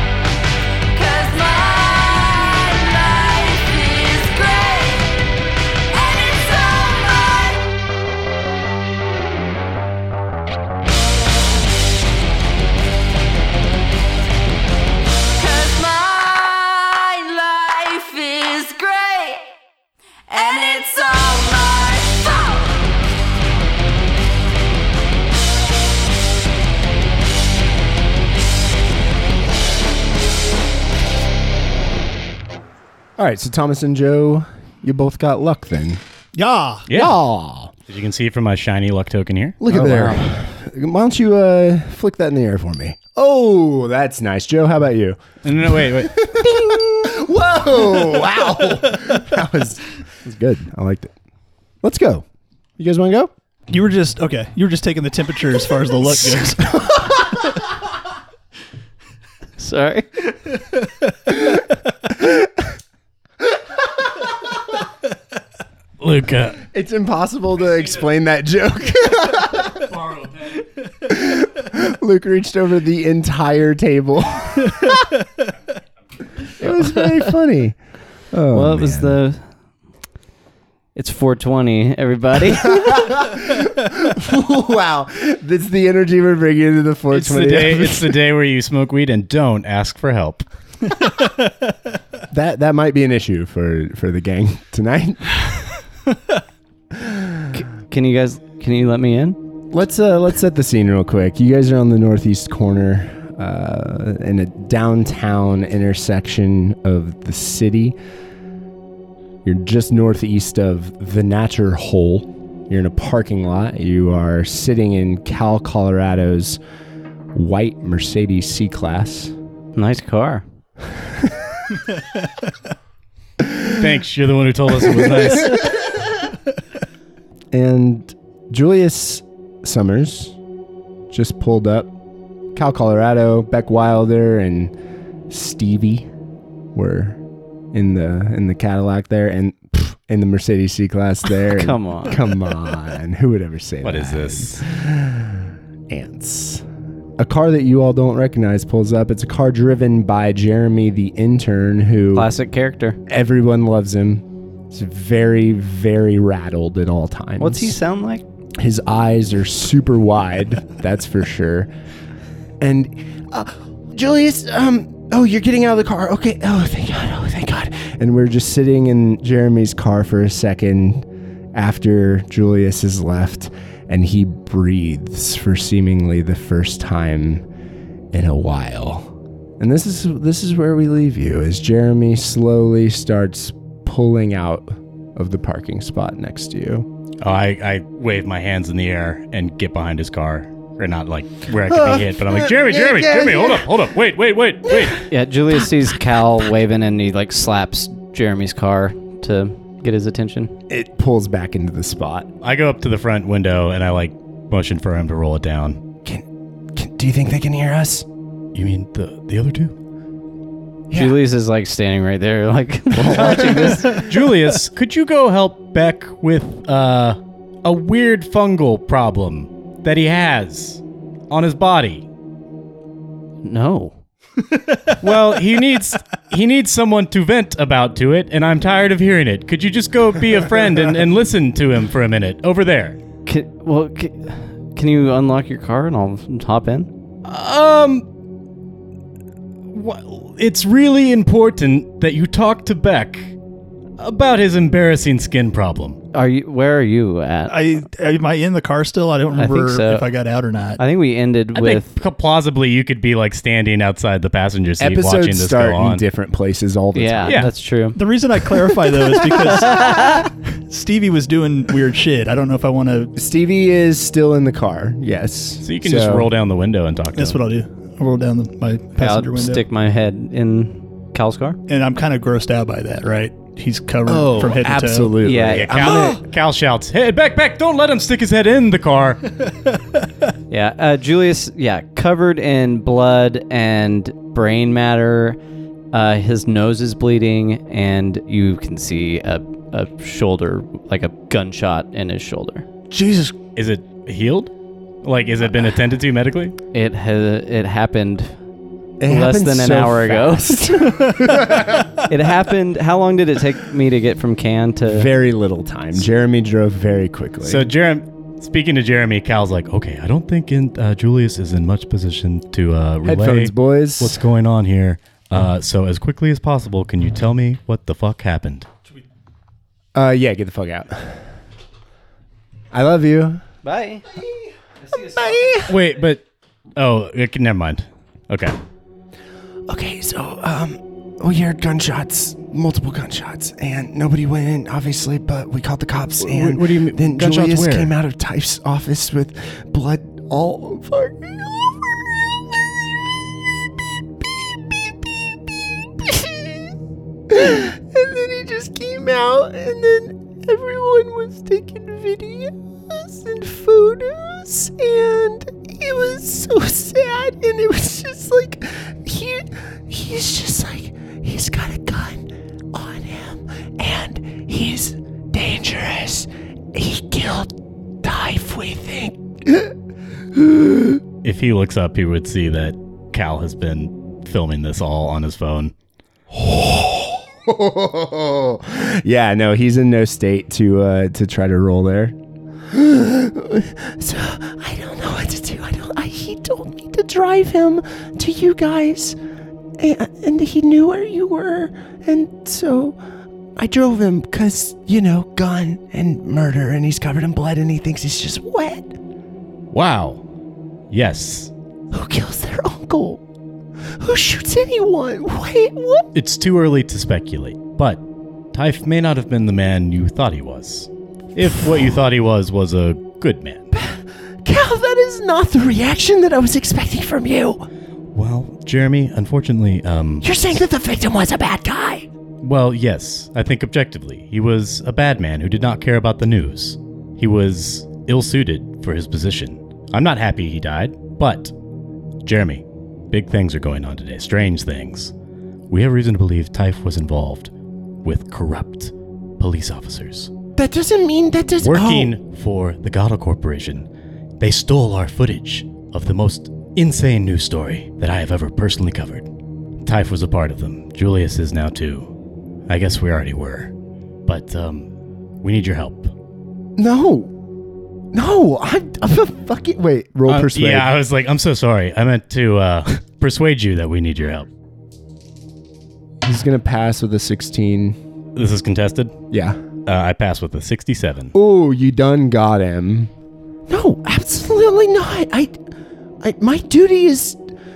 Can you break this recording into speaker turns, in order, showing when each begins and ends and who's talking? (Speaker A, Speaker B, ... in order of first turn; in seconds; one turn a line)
Speaker A: 0.9-5.2
Speaker A: 5.9-7.7
Speaker A: 15.4-19.4
Speaker A: 20.3-22.9
Speaker B: 33.2-36.0
Speaker C: 36.3-36.9
Speaker D: 36.9-37.1
Speaker B: 36.9-37.7
Speaker D: 37.9-40.2
Speaker B: 39.6-51.1
Speaker D: 45.4-46.3
Speaker B: 51.8-52.2
Speaker B: 52.8-53.3
Speaker C: 53.7-56.8
Speaker B: 56.1-57.6
Speaker E: 59.6-60.3
Speaker B: 62.2-62.5
Speaker D: 66.0-66.6
Speaker B: 66.6-69.9
Speaker B: 71.1-75.0
Speaker B: 76.6-77.8
Speaker B: 78.3-79.2
Speaker E: 78.5-79.5
Speaker E: 80.9-83.2
Speaker B: 82.8-88.2
Speaker D: 87.1-90.5
Speaker C: 91.0-91.4
Speaker B: 92.3-95.7
Speaker B: 97.0-97.4
Speaker E: 97.5-99.4
Speaker B: 99.7-108.0
Speaker B: 109.4-116.6
Speaker B: 117.3-119.3
Speaker E: 119.7-120.4
Speaker B: 121.0-121.6
Speaker D: 123.7-125.7
Speaker B: 125.0-125.5
Speaker B: 127.5-130.3
Speaker B: 131.1-131.9
Speaker B: 132.5-134.7
Speaker B: 135.3-136.1
Speaker B: 136.7-137.2
Speaker B: 137.7-146.6
Speaker E: 141.4-142.2
Speaker D: 143.8-144.6
Speaker B: 147.2-152.3
Speaker E: 152.1-153.0
Speaker B: 153.1-157.8
Speaker E: 157.4-158.2
Speaker B: 158.6-161.7
Speaker B: 162.6-177.4
Speaker B: 178.1-186.9
Speaker D: 187.2-195.1
Speaker B: 191.7-193.7
Speaker B: 194.7-194.9
Speaker E: 195.1-200.5
Speaker B: 195.5-196.5
Speaker B: 200.7-202.3
Speaker D: 202.4-205.8
Speaker B: 206.0-208.1
Speaker D: 208.5-209.7
Speaker B: 210.9-211.2
Speaker E: 210.9-214.1
Speaker B: 213.3-213.8
Speaker D: 214.0-222.0
Speaker E: 223.4-223.9
Speaker C: 224.5-224.9
Speaker D: 225.0-233.0
Speaker E: 233.2-236.9
Speaker D: 237.2-238.1
Speaker D: 239.7-243.3
Speaker D: 244.0-246.0
Speaker E: 246.1-247.8
Speaker C: 247.5-250.8
Speaker E: 249.3-250.1
Speaker E: 250.8-251.9
Speaker D: 251.5-256.0
Speaker B: 254.8-257.4
Speaker E: 256.9-258.0
Speaker D: 257.2-257.5
Speaker C: 257.9-263.1
Speaker E: 259.3-260.3
Speaker B: 263.1-266.3
Speaker D: 265.6-267.4
Speaker C: 267.1-269.6
Speaker E: 269.0-271.6
Speaker C: 271.7-275.2
Speaker B: 274.0-276.2
Speaker E: 275.2-276.1
Speaker D: 275.4-279.2
Speaker C: 275.8-276.2
Speaker E: 280.5-285.4
Speaker E: 285.9-292.6
Speaker C: 292.9-293.3
Speaker D: 293.6-294.5
Speaker D: 295.0-296.5
Speaker E: 296.7-298.3
Speaker B: 299.0-301.8
Speaker E: 299.1-300.7
Speaker E: 302.1-305.1
Speaker B: 304.9-307.7
Speaker D: 307.4-318.7
Speaker B: 313.0-314.2
Speaker B: 319.9-321.2
Speaker B: 322.7-323.4
Speaker E: 323.6-324.1
Speaker E: 324.9-325.7
Speaker B: 325.1-325.7
Speaker D: 325.7-326.2
Speaker D: 326.8-328.6
Speaker B: 329.7-342.7
Speaker D: 336.2-337.9
Speaker B: 343.8-346.7
Speaker B: 347.3-369.7
Speaker B: 370.3-371.0
Speaker D: 371.2-375.7
Speaker B: 376.3-382.1
Speaker B: 382.7-389.2
Speaker B: 389.8-393.0
Speaker B: 393.6-398.9
Speaker D: 399.7-400.2
Speaker D: 400.9-401.5
Speaker B: 401.9-403.2
Speaker B: 404.0-406.1
Speaker D: 406.1-408.0
Speaker D: 408.5-413.6
Speaker B: 413.7-417.7
Speaker D: 418.1-420.4
Speaker B: 420.2-422.1
Speaker D: 422.4-431.5
Speaker D: 432.2-435.1
Speaker D: 435.7-437.5
Speaker D: 438.0-440.3
Speaker B: 440.6-442.1
Speaker D: 441.6-443.9
Speaker D: 444.4-449.3
Speaker D: 449.8-452.1
Speaker D: 452.7-453.7
Speaker D: 454.2-454.9
Speaker D: 455.4-456.1
Speaker B: 456.8-457.3
Speaker B: 458.1-460.9
Speaker D: 460.3-464.5
Speaker B: 466.2-468.0
Speaker D: 468.3-469.2
Speaker B: 469.3-469.6
Speaker D: 469.9-471.3
Speaker B: 471.3-473.1
Speaker B: 473.7-475.6
Speaker B: 476.2-477.4